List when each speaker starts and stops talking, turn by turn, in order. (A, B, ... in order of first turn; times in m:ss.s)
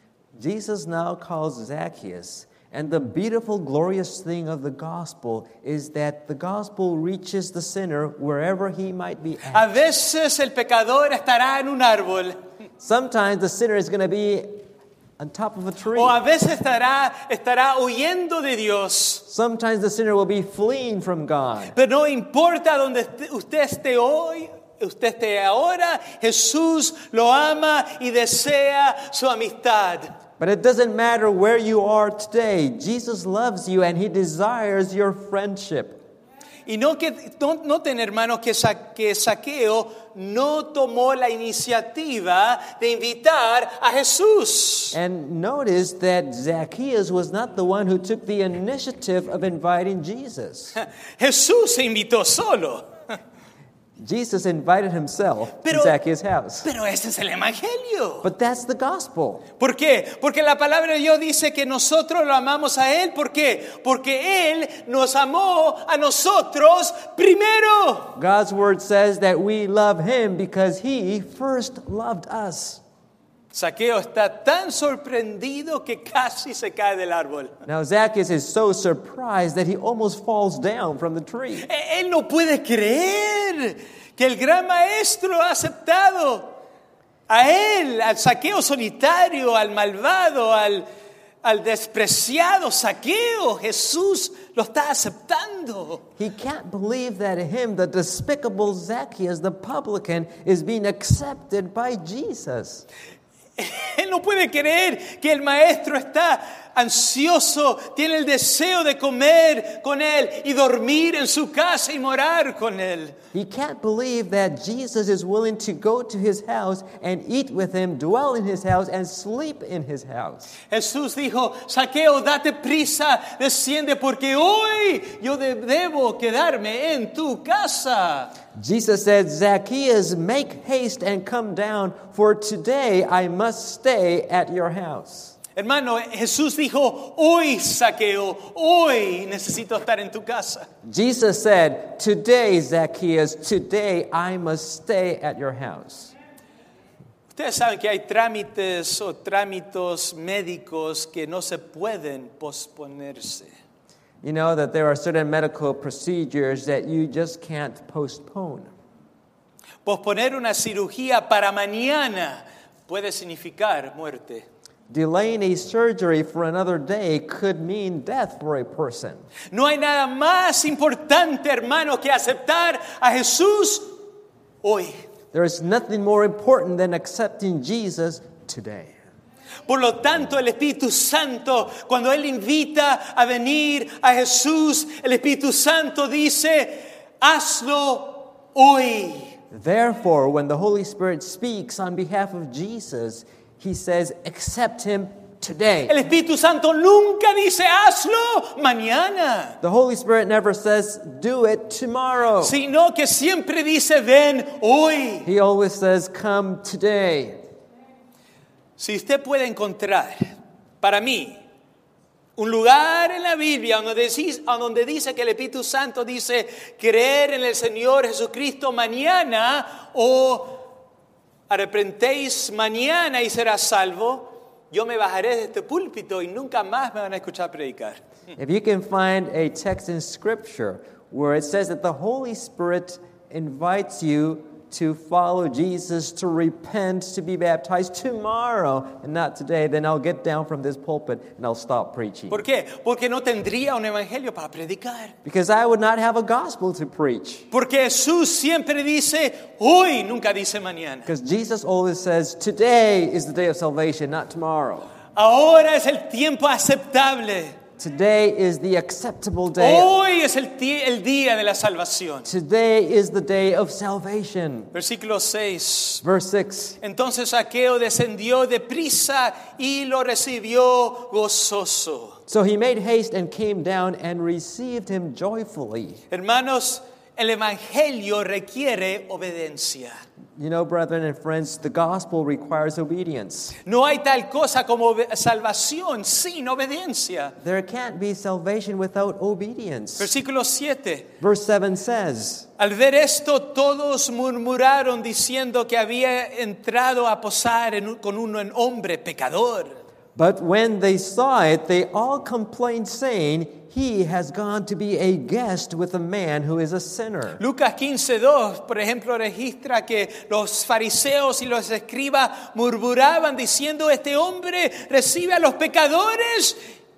0:00.3-0:09.7 A
0:09.5-0:12.4 B
0:12.8-0:14.6 A
0:15.2-0:16.2 A
0:15.9-0:19.2 B
0:19.3-0:21.7 A
0:21.7-0:30.1 B
0:30.4-0:36.0 A
0:36.7-0:45.0 B
0:44.9-0:50.8 A
0:50.7-0:53.1 B
0:54.0-0:56.7 A
0:55.6-0:56.0 B
0:56.6-0:58.3 B
0:58.2-0:59.4 A
0:59.6-1:08.1 B
1:08.2-1:12.8 A
1:13.5-1:17.5 B
1:17.6-1:21.7 A
1:21.6-1:26.5 B
1:27.3-1:30.8 B
1:31.4-1:36.0 B
1:36.2-1:42.8 A
1:43.6-1:53.1 B
1:53.3-2:00.6 A
2:00.7-2:08.4 B
2:08.5-2:15.4 A
2:15.6-2:20.7 B
2:20.8-2:26.1 A
2:27.3-2:33.5 B
2:34.2-2:38.7 A
2:39.8-2:44.4 B
2:44.9-2:49.2 A
2:49.5-2:53.9 B
2:54.6-2:55.0 B
2:55.3-2:59.0 A
2:59.7-3:09.4 B
3:09.5-3:16.0 A
3:15.9-3:19.6 B
3:19.6-3:22.6 A
3:22.4-3:25.3 B
3:25.2-3:27.4 A
3:28.8-3:31.4 B
3:32.4-3:40.6 B
3:41.5-3:48.0 B
3:48.4-4:02.4 A
4:02.3-4:05.1 B
4:05.2-4:07.4 A
4:07.5-4:11.1 B
4:11.1-4:14.9 A
4:15.2-4:17.6 B
4:17.8-4:19.9 A
4:19.6-4:22.3 B
4:22.2-4:24.7 A
4:24.7-4:26.0 B
4:26.0-4:26.8 A
4:26.8-4:32.2 B
4:32.3-4:36.0 A
4:36.1-4:39.9 B
4:40.4-4:43.6 A
4:43.6-4:47.3 B
4:47.4-4:50.1 A
4:50.0-4:51.1 B
4:51.2-4:52.5 A
4:52.6-4:59.8 B
5:00.2-5:07.4 A
5:07.4-5:16.6 B